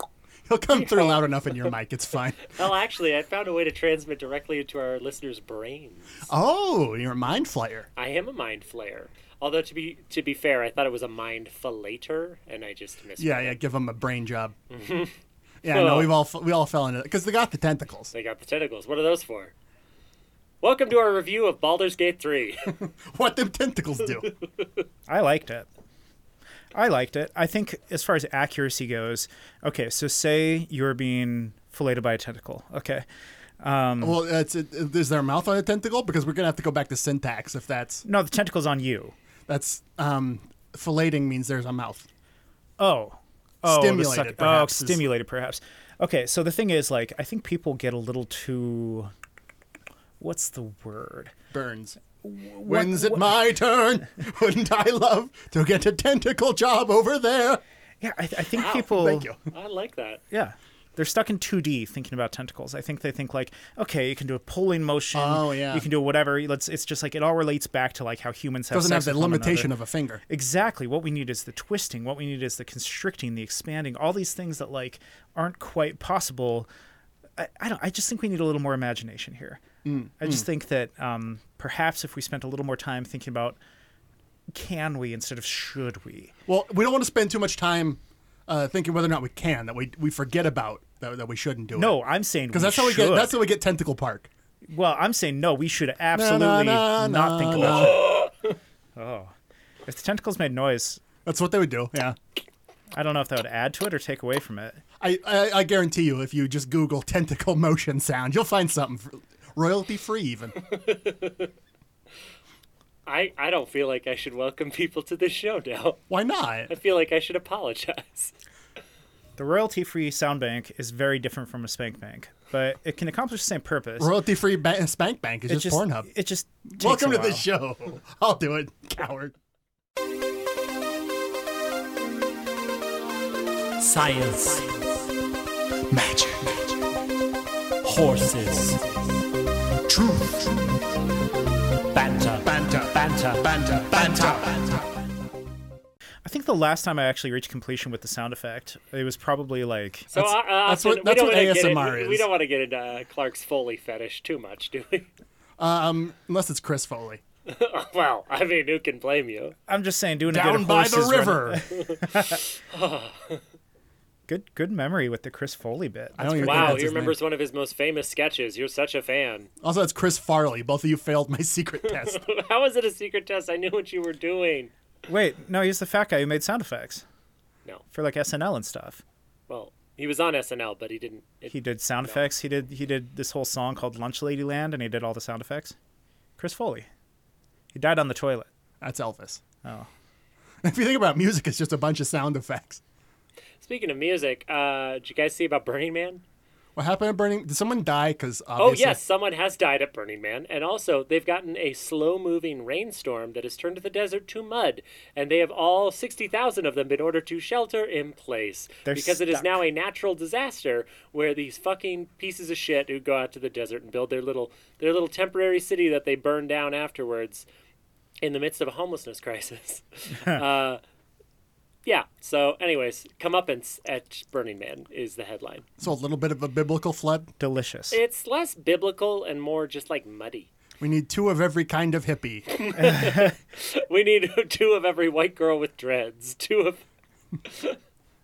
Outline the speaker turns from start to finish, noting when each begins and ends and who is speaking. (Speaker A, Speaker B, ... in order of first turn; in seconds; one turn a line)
Speaker A: 0.5-2.5
Speaker B: 0.7-1.2
Speaker B: 2.5-6.3
Speaker A: 6.3-7.9
Speaker B: 8.0-13.6
Speaker A: 13.2-14.5
Speaker B: 14.7-15.1
Speaker A: 15.6-18.1
Speaker B: 15.6-16.1
Speaker B: 18.1-19.5
Speaker B: 20.6-22.7
Speaker A: 22.8-24.3
Speaker C: 25.1-25.7
Speaker C: 26.7-33.0
Speaker C: 33.6-34.2
Speaker A: 34.0-38.0
Speaker C: 38.0-39.1
Speaker A: 39.5-42.1
Speaker C: 42.8-49.1
Speaker A: 43.6-45.0
Speaker C: 50.2-51.3
Speaker A: 51.5-52.0
Speaker C: 52.2-53.4
Speaker A: 52.6-57.6
Speaker C: 58.0-59.3
Speaker B: 58.5-58.9
Speaker A: 58.8-59.4
Speaker B: 59.4-60.2
Speaker C: 60.3-69.7
Speaker A: 65.1-65.9
Speaker A: 68.7-70.2
Speaker C: 70.3-76.7
Speaker C: 77.4-79.6
Speaker A: 79.8-80.5
Speaker C: 80.2-83.6
Speaker C: 84.5-86.3
Speaker A: 86.5-92.0
Speaker C: 91.7-93.3
Speaker A: 92.5-94.3
Speaker C: 94.7-98.1
Speaker A: 96.1-98.1
Speaker B: 97.6-98.2
Speaker C: 99.0-99.3
Speaker C: 99.8-101.0
Speaker A: 101.2-102.2
Speaker C: 102.9-104.8
Speaker A: 105.0-110.6
Speaker B: 110.7-111.5
Speaker B: 113.0-116.0
Speaker A: 116.1-116.7
Speaker B: 116.7-118.3
Speaker C: 119.4-124.1
Speaker A: 124.0-126.1
Speaker C: 125.5-127.5
Speaker A: 126.7-129.3
Speaker B: 133.8-134.9
Speaker A: 135.9-136.8
Speaker B: 137.8-138.8
Speaker B: 139.9-140.4
Speaker B: 141.9-144.7
Speaker A: 142.4-144.5
Speaker C: 146.2-150.1
Speaker B: 150.1-155.1
Speaker A: 150.2-152.3
Speaker A: 155.6-157.2
Speaker B: 157.4-159.5
Speaker C: 159.7-162.4
Speaker A: 160.3-161.6
Speaker B: 161.9-163.4
Speaker C: 164.3-166.9
Speaker A: 166.2-167.2
Speaker B: 166.4-169.5
Speaker A: 169.6-172.2
Speaker B: 171.9-174.7
Speaker C: 175.1-177.0
Speaker C: 177.9-179.0
Speaker B: 179.5-182.2
Speaker C: 181.5-185.8
Speaker C: 186.4-186.9
Speaker C: 187.7-188.5
Speaker A: 188.8-189.4
Speaker A: 190.6-192.8
Speaker B: 193.6-196.2
Speaker A: 196.8-199.0
Speaker B: 198.6-217.4
Speaker C: 208.8-209.6
Speaker B: 218.2-220.8
Speaker B: 221.8-225.7
Speaker A: 225.8-227.3
Speaker C: 227.4-228.0
Speaker B: 227.9-230.5
Speaker A: 230.8-232.8
Speaker B: 232.5-236.8
Speaker C: 232.8-233.3
Speaker B: 237.4-237.8